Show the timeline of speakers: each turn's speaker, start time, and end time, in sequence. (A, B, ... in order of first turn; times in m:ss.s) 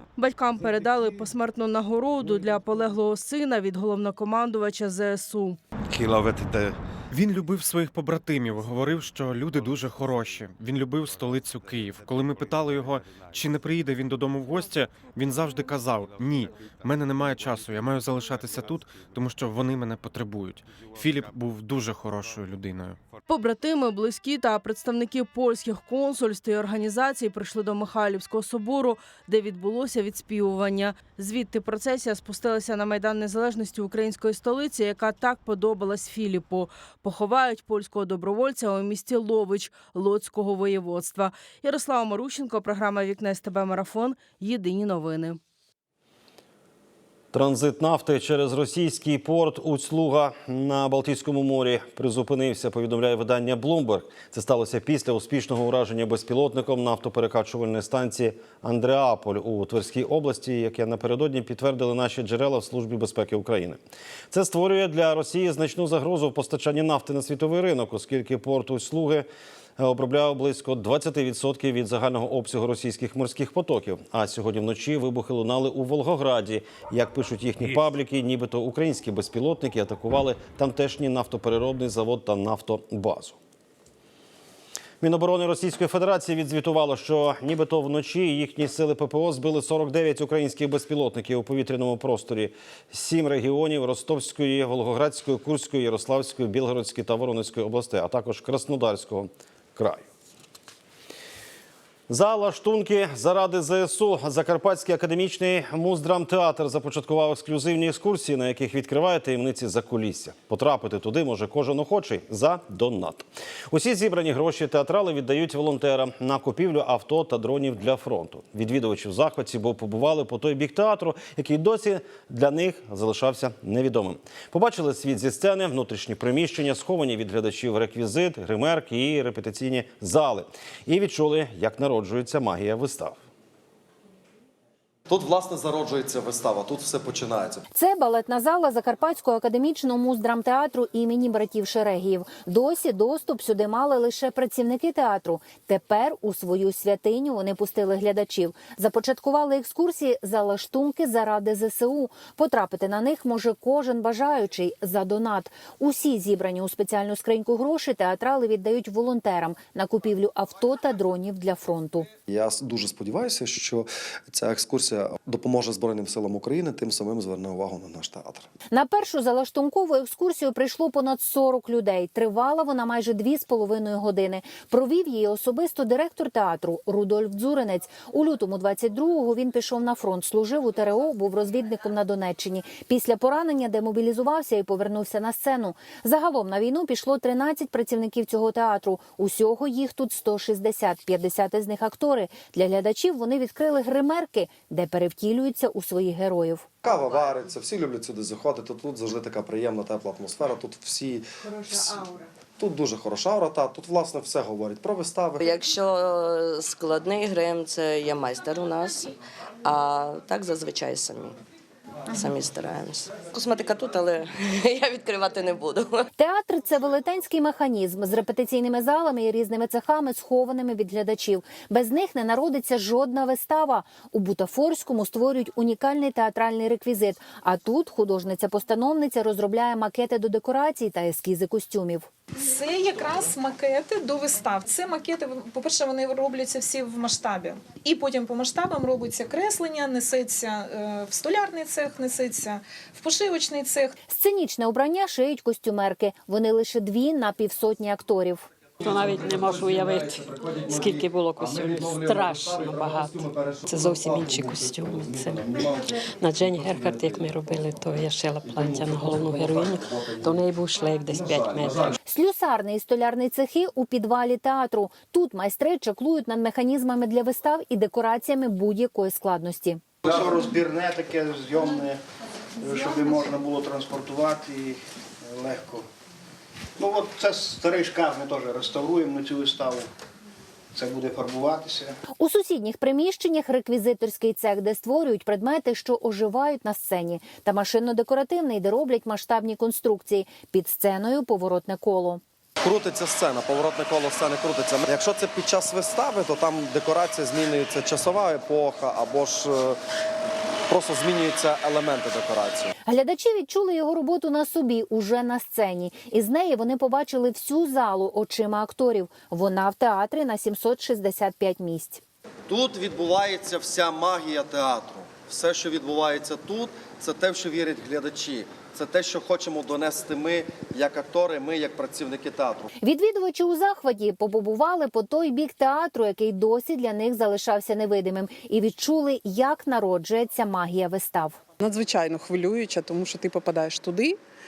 0:00.2-0:05.6 A
0:05.9-0:06.7 B
0:07.1-0:23.0 C
0:23.3-0:45.4 A
0:47.3-1:03.8 D
1:04.3-1:09.2 D
1:09.8-1:23.4 D
1:25.0-1:40.0 D
1:42.1-2:13.2 D
2:15.1-2:17.6 B
2:17.7-2:42.1 E
2:42.3-2:48.4 B
2:48.7-3:16.7 E
3:16.8-3:25.4 B
3:25.4-3:31.4 F
3:32.1-3:36.1 F
3:36.2-3:52.1 E
3:52.3-4:03.9 G
4:04.1-4:08.4 E
4:08.9-4:10.1 H
4:08.9-4:20.4 B
4:11.1-4:13.2 H
4:13.7-4:15.4 H
4:16.2-4:21.7 H
4:21.1-4:22.0 B
4:22.0-4:29.8 E
4:30.3-4:30.7 I
4:33.0-4:34.6 I
4:36.8-4:39.1 I
4:40.7-4:41.9 I
4:42.2-4:52.2 E
4:52.6-4:59.8 B
5:00.7-5:02.7 B
5:02.8-5:12.0 E
5:12.5-5:22.7 B
5:22.8-5:31.4 E
5:31.6-5:34.2 J